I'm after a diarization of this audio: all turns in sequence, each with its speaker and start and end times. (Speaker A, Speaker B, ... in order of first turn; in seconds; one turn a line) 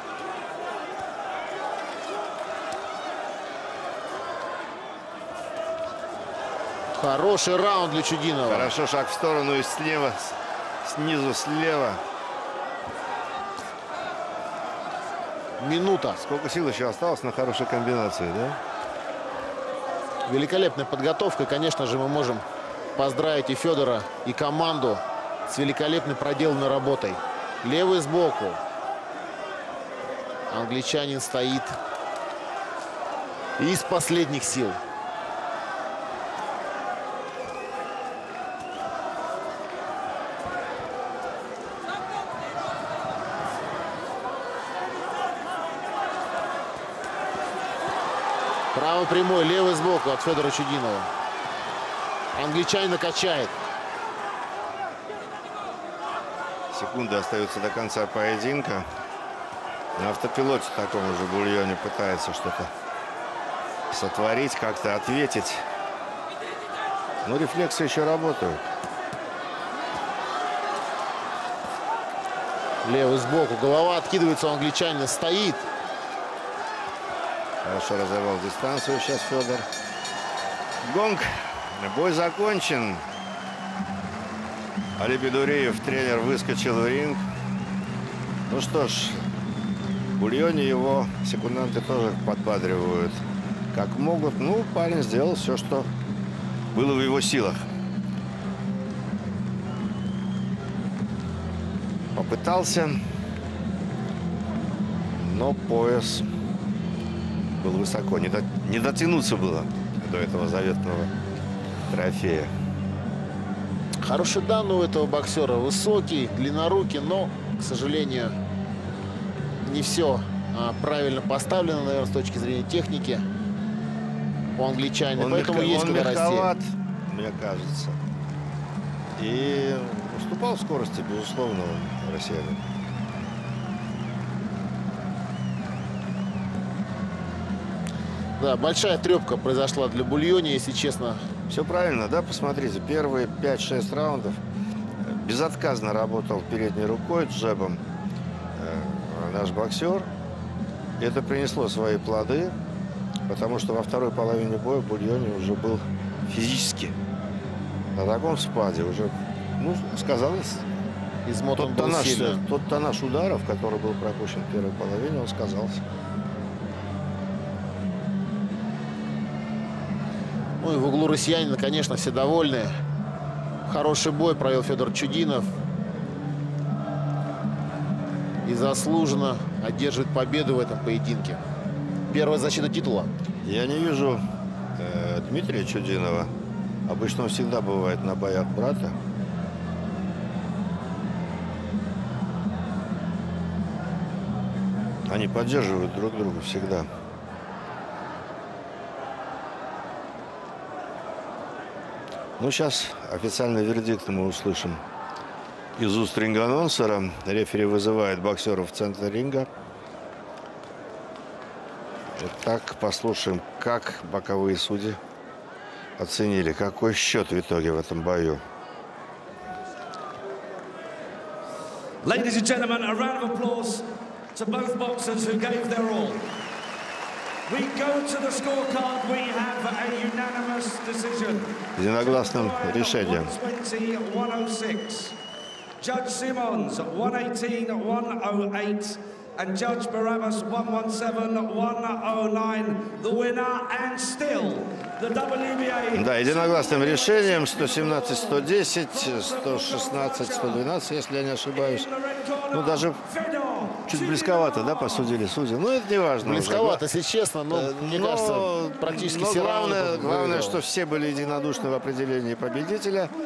Speaker A: 6.9-8.8
Speaker B: 8.4-12.0
Speaker A: 15.6-16.2
Speaker B: 16.2-18.6
Speaker A: 20.3-22.4
Speaker A: 22.9-28.6
Speaker A: 30.5-31.8
Speaker A: 33.6-34.8
Speaker A: 48.7-51.1
Speaker A: 52.3-53.6
Speaker B: 56.7-58.9
Speaker B: 60.0-62.7
Speaker B: 63.9-65.6
Speaker B: 67.2-68.6
Speaker A: 72.8-75.6
Speaker B: 77.6-79.7
Speaker B: 80.8-83.1
Speaker B: 85.0-87.2
Speaker B: 88.5-89.2
Speaker B: 90.2-95.9
Speaker B: 96.7-97.7
Speaker B: 102.1-103.0
Speaker B: 105.1-106.3
Speaker B: 107.4-111.1
Speaker B: 111.9-112.5
Speaker A: 114.0-118.3
Speaker A: 119.6-123.2
Speaker A: 124.6-126.5
Speaker B: 125.2-128.0
Speaker B: 129.2-132.7
Speaker A: 138.4-141.2
Speaker B: 141.5-144.4
Speaker B: 145.0-147.8
Speaker B: 148.6-150.1
Speaker B: 151.0-152.6
Speaker B: 153.3-156.9
Speaker B: 157.9-160.7
Speaker A: 161.3-162.4
Speaker B: 161.6-165.8
Speaker A: 170.6-172.8
Speaker A: 173.7-175.5
Speaker A: 178.4-181.4
Speaker A: 182.1-183.1
Speaker B: 183.4-184.2
Speaker B: 184.8-186.3
Speaker B: 186.9-188.9
Speaker B: 195.1-196.9
Speaker B: 202.4-204.8
Speaker B: 205.8-209.5
Speaker B: 212.2-215.0
Speaker B: 216.0-218.4
Speaker C: 222.0-226.2
Speaker C: 227.5-235.1
Speaker B: 231.8-233.3
Speaker C: 235.8-250.6
Speaker B: 245.9-251.9
Speaker C: 251.6-255.1
Speaker B: 252.5-253.0
Speaker B: 253.9-256.9
Speaker A: 256.2-260.6
Speaker B: 257.5-263.1